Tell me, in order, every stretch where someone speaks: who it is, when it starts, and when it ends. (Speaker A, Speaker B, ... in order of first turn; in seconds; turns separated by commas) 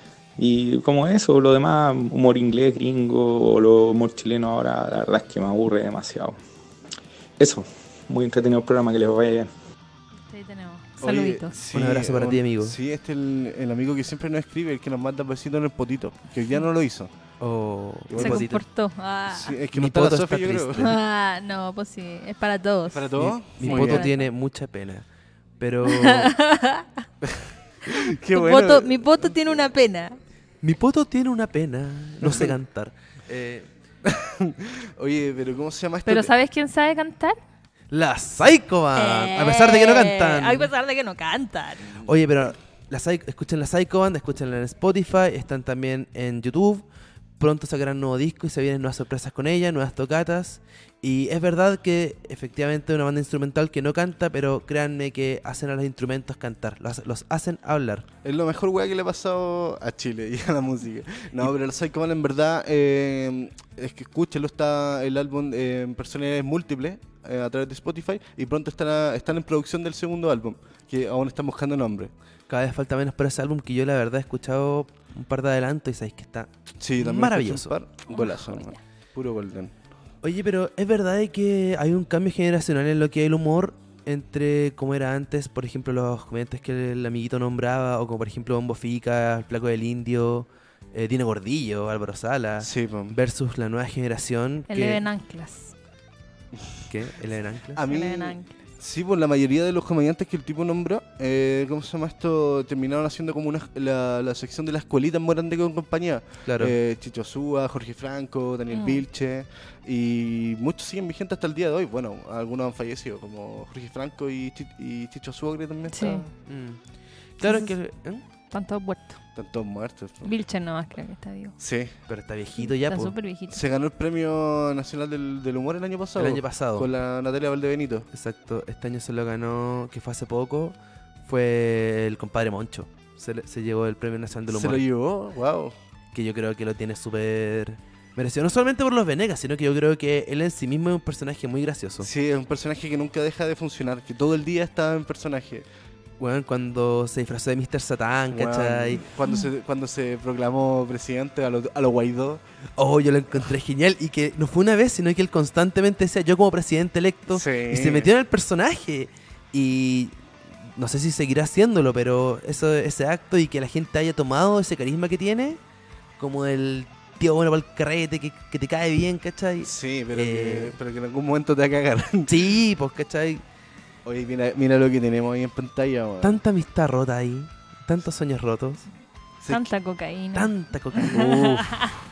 Speaker A: 0.4-6.3, Speaker A: 7.4-9.5, Speaker B: 10.2-11.6, Speaker C: 11.0-17.1, Speaker D: 11.7-12.8, Speaker D: 17.4-18.6, Speaker C: 18.1-18.5, Speaker B: 18.1-19.6, Speaker C: 19.3-20.9, Speaker D: 19.7-20.9, Speaker B: 20.8-24.2, Speaker C: 22.9-24.1, Speaker D: 23.2-25.1, Speaker D: 25.6-26.3, Speaker B: 25.8-27.1, Speaker C: 27.2-29.6, Speaker B: 27.8-30.2, Speaker D: 30.6-33.7, Speaker C: 32.2-32.5, Speaker C: 34.0-36.3, Speaker B: 36.0-37.4, Speaker D: 37.9-40.7, Speaker B: 38.9-42.0, Speaker D: 42.0-46.8, Speaker D: 47.4-58.0, Speaker C: 58.2-72.1, Speaker D: 72.5-77.7, Speaker C: 76.8-79.7, Speaker B: 78.1-78.8, Speaker D: 80.2-95.0, Speaker C: 92.6-93.2, Speaker B: 94.7-95.7, Speaker C: 96.6-96.8, Speaker D: 96.9-97.8, Speaker C: 97.7-116.3, Speaker B: 97.8-98.6, Speaker D: 106.5-106.8, Speaker B: 108.7-109.0, Speaker B: 115.9-116.2, Speaker D: 116.4-116.8, Speaker D: 117.4-118.2, Speaker B: 117.4-117.7, Speaker B: 118.5-119.2, Speaker C: 119.3-120.3, Speaker B: 120.2-121.5, Speaker C: 121.6-121.9, Speaker D: 122.1-123.1, Speaker B: 122.6-123.6, Speaker C: 123.5-128.1, Speaker D: 126.2-126.9, Speaker D: 128.1-134.8, Speaker C: 134.5-135.7, Speaker D: 136.1-142.1, Speaker C: 142.0-145.7, Speaker D: 146.2-149.1, Speaker C: 148.3-152.4, Speaker D: 152.8-165.6, Speaker C: 157.3-158.1, Speaker D: 166.2-170.8, Speaker C: 169.6-172.5, Speaker D: 172.3-173.4, Speaker C: 174.1-176.4, Speaker D: 176.2-178.8, Speaker C: 179.4-179.7, Speaker B: 179.5-181.9, Speaker D: 180.3-181.6, Speaker C: 181.1-182.0